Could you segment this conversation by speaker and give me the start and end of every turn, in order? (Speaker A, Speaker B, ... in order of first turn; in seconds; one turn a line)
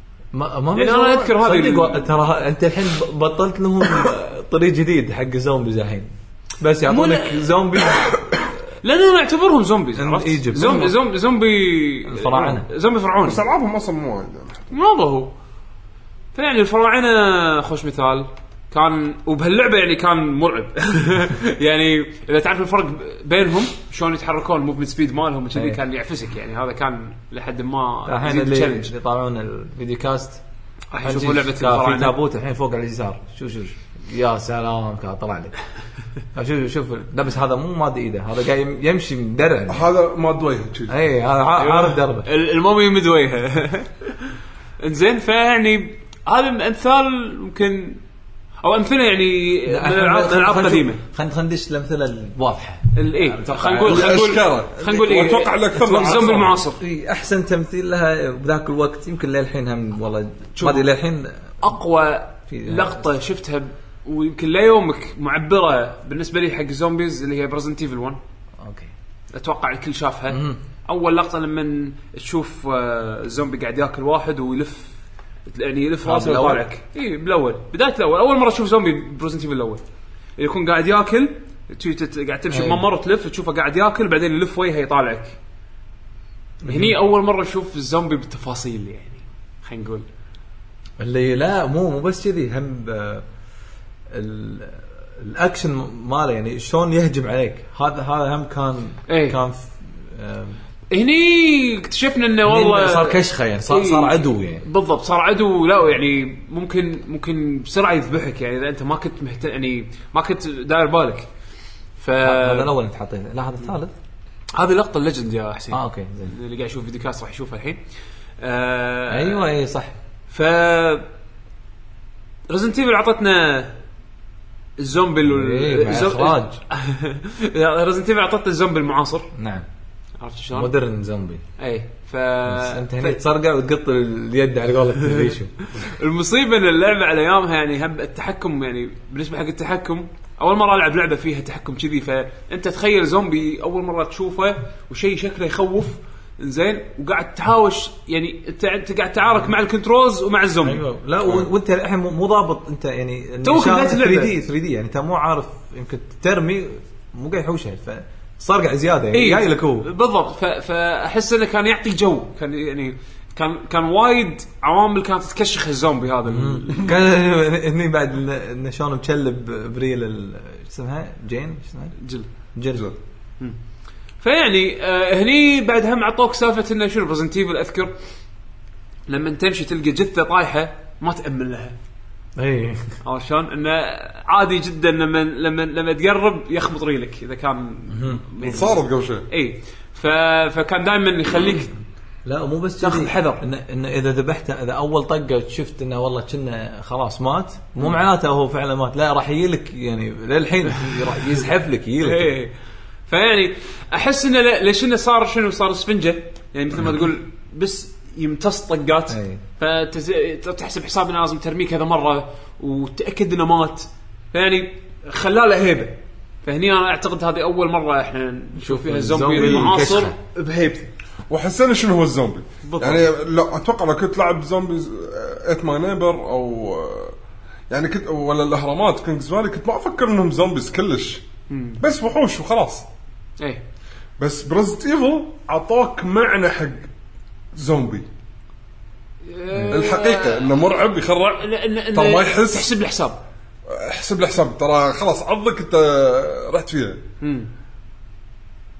Speaker A: 0.3-8.3
Speaker B: 0.7-2.1
Speaker B: 6.9-7.5
Speaker B: 8.8-13.4
Speaker A: 9.9-11.0
Speaker A: 12.1-12.7
Speaker C: 13.2-14.7
Speaker B: 14.7-15.3
Speaker B: 16.3-28.9
Speaker A: 28.1-30.4
Speaker B: 30.9-32.1
Speaker A: 31.0-35.5
Speaker A: 36.3-39.9
Speaker C: 39.7-41.0
Speaker A: 40.9-42.2
Speaker B: 41.6-48.0
Speaker B: 48.6-51.0
Speaker A: 49.7-54.3
Speaker B: 52.9-56.8
Speaker C: 53.8-56.6
Speaker A: 55.9-61.5
Speaker B: 60.5-60.9
Speaker B: 61.6-68.2
Speaker A: 62.5-63.0
Speaker A: 68.6-68.9
Speaker B: 69.3-74.9
Speaker A: 70.3-70.6
Speaker B: 75.5-79.8
Speaker A: 76.0-76.6
Speaker B: 80.4-85.4
Speaker A: 82.5-82.8
Speaker A: 86.6-86.9
Speaker B: 86.6-90.0
Speaker A: 91.0-93.2
Speaker A: 94.1-100.6
Speaker B: 99.1-99.4
Speaker B: 100.9-111.3
Speaker A: 102.5-104.6
Speaker B: 112.0-112.7
Speaker A: 112.2-113.9
Speaker B: 114.5-117.8
Speaker A: 115.7-116.3
Speaker B: 118.4-119.5
Speaker A: 119.1-119.9
Speaker B: 120.3-121.1
Speaker B: 122.5-123.8
Speaker B: 124.8-129.3
Speaker A: 125.2-126.6
Speaker A: 129.3-129.7
Speaker B: 130.2-130.7
Speaker A: 130.5-131.4
Speaker B: 131.6-133.2
Speaker A: 132.4-135.5
Speaker B: 135.0-150.8
Speaker A: 150.6-159.8
Speaker B: 153.4-154.3
Speaker B: 159.1-166.9
Speaker A: 166.3-171.9
Speaker B: 172.0-172.3
Speaker A: 172.5-172.9
Speaker B: 174.2-177.9
Speaker B: 179.1-181.8
Speaker A: 182.3-183.0
Speaker B: 183.0-191.8
Speaker A: 187.9-188.2
Speaker C: 188.4-189.3
Speaker A: 192.2-202.3
Speaker B: 192.8-193.4
Speaker B: 202.0-202.5
Speaker B: 203.1-220.9
Speaker A: 209.1-209.4
Speaker A: 218.6-220.2
Speaker C: 219.4-219.7
Speaker C: 221.3-227.1
Speaker B: 222.6-223.1
Speaker C: 227.7-231.2
Speaker B: 231.5-231.8
Speaker C: 231.8-232.8
Speaker C: 234.2-236.9
Speaker C: 237.5-238.1
Speaker B: 239.2-243.2
Speaker C: 239.7-242.7
Speaker C: 243.7-247.0
Speaker B: 247.2-247.5